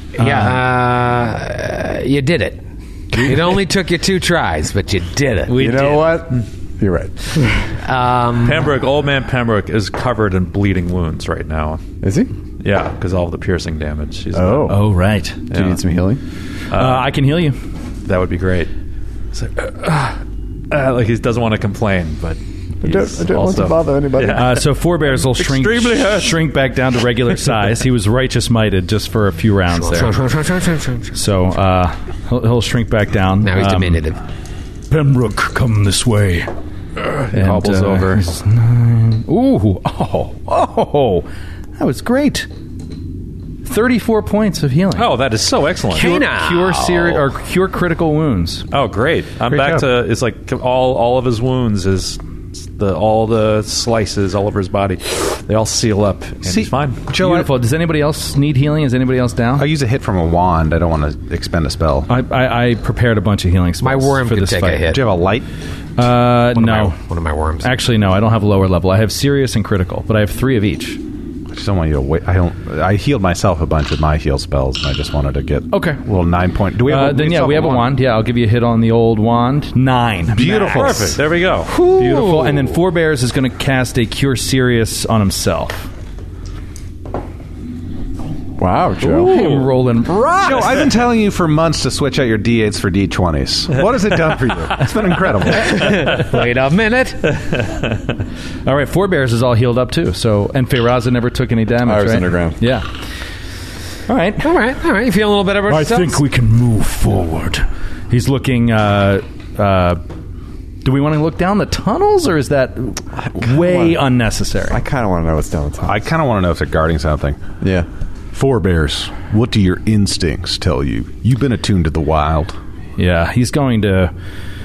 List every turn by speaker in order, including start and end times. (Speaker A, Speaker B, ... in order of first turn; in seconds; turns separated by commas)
Speaker A: 0.2-2.6, Speaker B: 0.2-0.6, Speaker B: 3.1-3.5, Speaker A: 3.2-5.6, Speaker C: 5.5-7.4, Speaker B: 5.5-6.2, Speaker A: 7.8-8.7, Speaker D: 8.4-11.8, Speaker C: 12.0-12.3, Speaker D: 12.6-14.7, Speaker C: 14.3-14.8, Speaker B: 14.7-15.5, Speaker C: 15.5-16.2, Speaker D: 16.7-17.1, Speaker B: 16.7-17.6, Speaker D: 18.1-18.7, Speaker D: 19.3-26.4, Speaker C: 22.8-24.6, Speaker B: 24.4-30.2, Speaker A: 29.7-31.1, Speaker B: 31.1-34.0, Speaker A: 33.4-34.2, Speaker B: 34.9-36.5, Speaker D: 37.0-38.3, Speaker B: 37.3-42.5, Speaker B: 43.6-45.2, Speaker D: 45.0-46.1, Speaker B: 45.9-48.7, Speaker A: 45.9-47.3, Speaker D: 48.7-57.0, Speaker E: 49.5-49.9, Speaker E: 56.5-57.5, Speaker B: 57.1-59.7, Speaker E: 59.6-62.1, Speaker B: 62.1-64.9, Speaker A: 63.8-65.0, Speaker E: 64.9-65.5, Speaker B: 66.0-67.0, Speaker A: 66.5-67.7, Speaker B: 67.6-71.0, Speaker E: 71.5-78.0, Speaker B: 75.7-76.0, Speaker B: 76.8-81.2, Speaker E: 80.3-81.2, Speaker D: 80.7-81.7, Speaker B: 81.8-85.9, Speaker C: 88.6-89.5, Speaker B: 89.0-90.9, Speaker E: 90.3-96.2, Speaker A: 95.6-97.4, Speaker B: 98.7-102.8, Speaker C: 101.8-102.6, Speaker B: 104.1-104.5, Speaker A: 104.4-106.2, Speaker B: 105.7-110.0, Speaker B: 110.8-114.8, Speaker C: 113.4-114.0, Speaker C: 114.7-116.0, Speaker E: 115.8-117.4, Speaker C: 117.6-117.9, Speaker E: 118.3-122.6, Speaker B: 123.0-124.1